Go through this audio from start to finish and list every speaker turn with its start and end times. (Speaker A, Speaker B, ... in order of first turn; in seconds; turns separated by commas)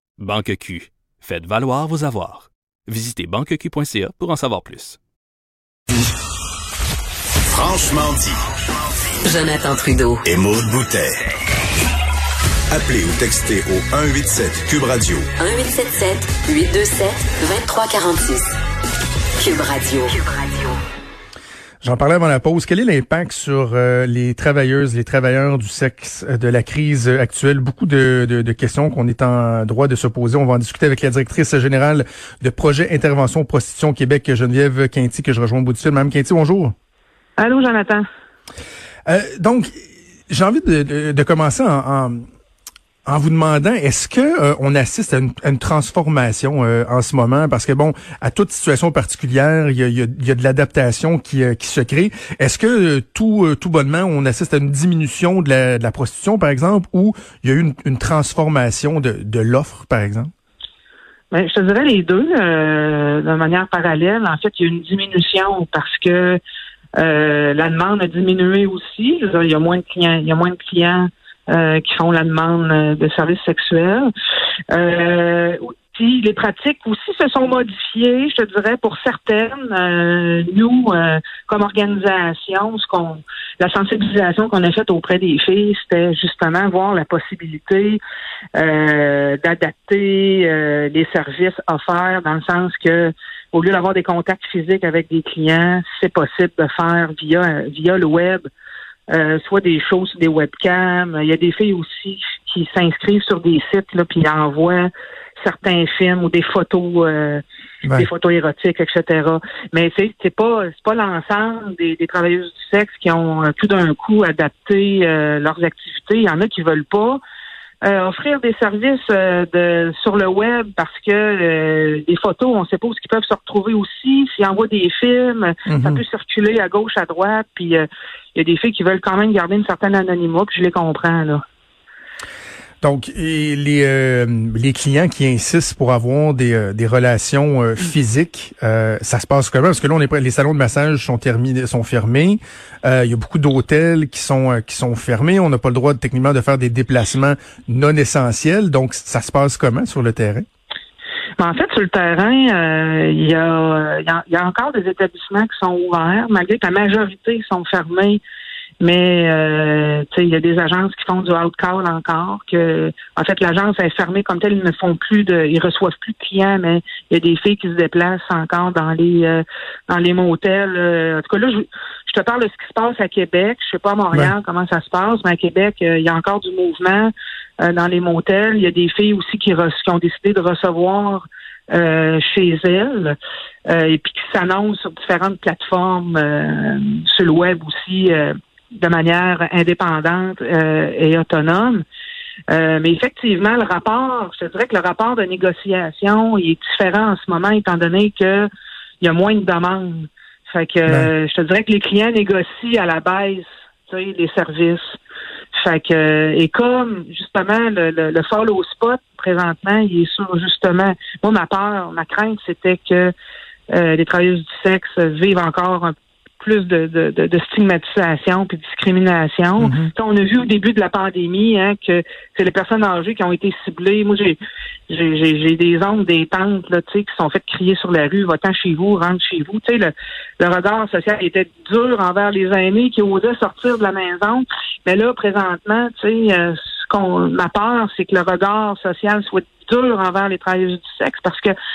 Speaker A: 0.2-5.0, Speaker B: 7.5-8.4, Speaker C: 9.2-10.2, Speaker B: 10.2-11.2, Speaker B: 12.7-15.3, Speaker C: 15.4-18.5, Speaker C: 19.4-20.8, Speaker D: 21.8-36.7, Speaker E: 37.4-38.0, Speaker D: 39.1-39.7, Speaker D: 40.3-42.2, Speaker D: 43.1-60.3, Speaker E: 61.3-66.4, Speaker E: 67.0-74.1, Speaker E: 74.7-88.0, Speaker E: 88.5-98.5, Speaker E: 99.1-104.9, Speaker E: 105.4-107.4, Speaker E: 107.9-117.2, Speaker E: 117.8-131.4, Speaker D: 125.7-126.0, Speaker D: 132.8-150.4, Speaker E: 151.4-158.2, Speaker E: 158.8-183.2, Speaker E: 183.7-191.8, Speaker E: 192.5-198.5, Speaker E: 199.0-205.0, Speaker E: 205.6-213.1, Speaker E: 213.7-224.4, Speaker D: 219.6-219.9, Speaker E: 224.9-241.5